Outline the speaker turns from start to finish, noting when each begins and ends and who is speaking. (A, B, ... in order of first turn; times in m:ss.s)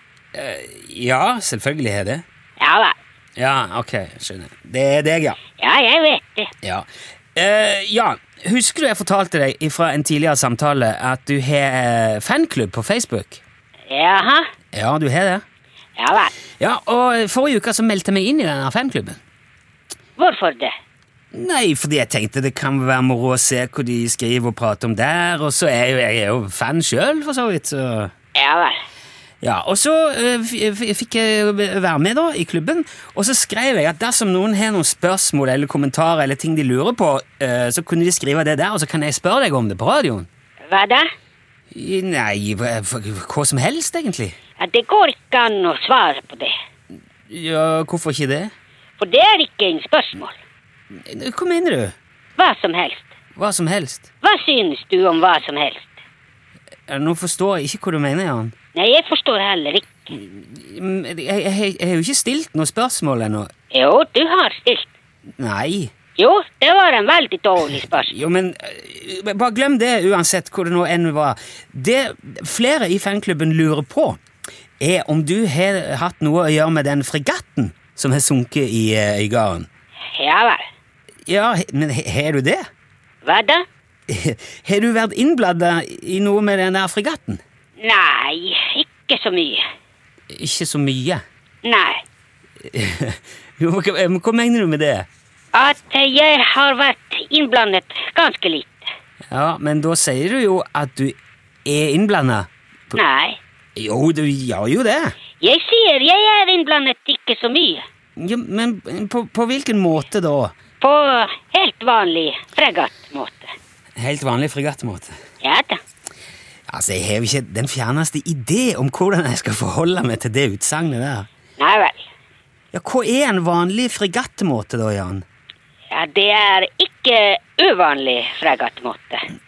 0:00.3-0:02.2 A
0:02.6-0:03.0 B
0:03.4-0:05.4 A
0:05.6-0:06.5 B
0:06.6-0:13.4 A
0:13.9-0:14.5 B
0:14.7-0:15.4 A
0:16.0-0:16.3 B
0:16.6-0:19.2 A
0:20.2-0:20.7 B
0:21.3-0:28.1 A
0:28.4-0:28.8 B
0:29.4-0:40.3 A
0:40.7-0:41.0 B
0:41.7-0:44.4 A
0:44.6-0:46.5 B
0:47.3-0:48.5 A
0:49.0-0:50.4 B
0:51.0-0:52.0 A
0:52.4-0:53.1 B
0:53.4-0:54.1 A
0:54.2-0:56.0 B
0:56.9-0:58.6 A
0:58.7-1:00.1 B
1:00.1-1:03.5 A
1:03.7-1:04.9 B
1:05.4-1:05.9 A
1:06.2-1:08.2 B
1:08.1-1:14.2 A
1:14.8-1:19.7 A
1:20.1-1:20.6 B
1:21.3-1:22.6 A
1:23.2-1:23.6 B
1:24.1-1:27.4 A
1:27.8-1:29.6 B
1:30.3-1:31.2 A
1:31.6-1:32.0 B
1:32.7-1:35.1 A
1:35.5-1:38.9 B
1:39.3-1:43.0 A
1:42.9-1:43.4 B
1:43.8-1:45.2 A
1:45.4-1:47.8 B
1:48.2-1:50.6 A
1:50.8-1:53.5 B
1:54.0-1:55.1 A
1:55.4-1:55.8 B
1:56.7-2:01.3 A
2:01.6-2:02.1 B
2:02.7-2:05.2 A
2:05.9-2:09.2 B